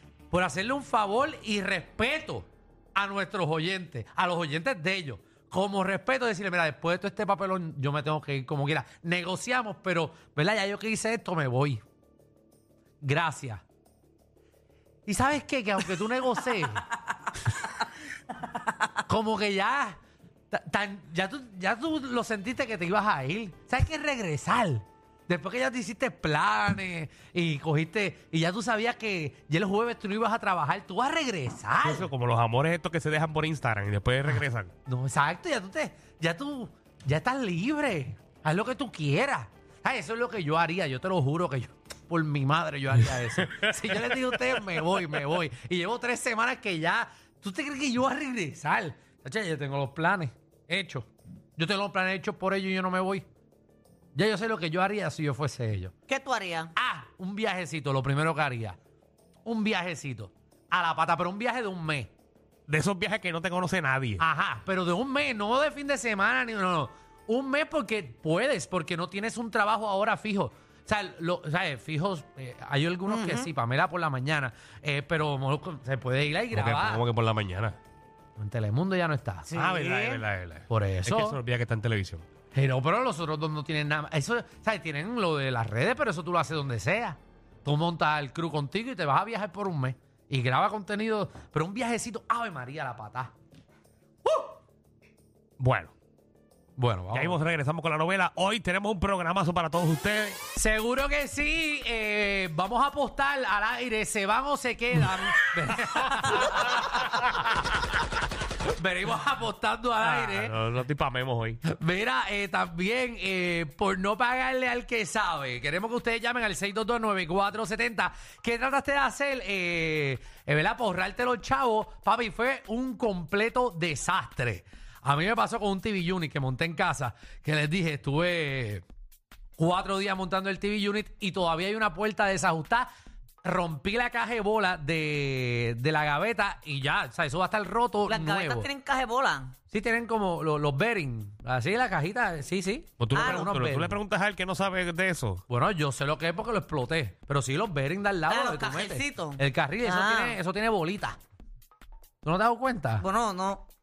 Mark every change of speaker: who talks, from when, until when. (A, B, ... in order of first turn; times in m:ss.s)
0:00.3-0:11.8 A
0:13.0-0:13.6 A
0:15.0-0:16.8 A
0:19.1-0:20.0 A
0:20.5-0:32.1 A
0:31.8-0:34.7 B
0:34.3-0:53.2 A
0:54.1-0:55.9 A
0:56.1-0:56.7 C
0:56.8-0:58.8 A
0:59.4-1:02.1 A
1:02.7-1:04.2 B
1:04.2-1:17.0 A
1:13.1-1:13.5 C
1:16.5-1:17.8 B
1:18.4-1:19.6 A
1:19.5-1:20.2 C
1:19.6-1:22.2 B
1:20.7-1:21.4 A
1:22.5-1:33.3 A
1:35.6-1:35.9 B
1:36.8-1:37.4 A
1:37.1-1:40.4 B
1:40.5-1:47.2 A
1:48.6-1:50.5 A
1:50.0-1:51.6 B
1:51.6-2:08.8 A
2:09.6-2:12.9 A
2:13.4-2:18.7 A
2:18.1-2:19.5 C
2:19.7-2:24.0 A
2:23.0-2:25.4 B
2:23.1-2:23.6 C
2:25.5-2:31.2 A
2:28.3-2:30.4 C
2:32.2-2:33.0 A
2:33.0-2:33.6 C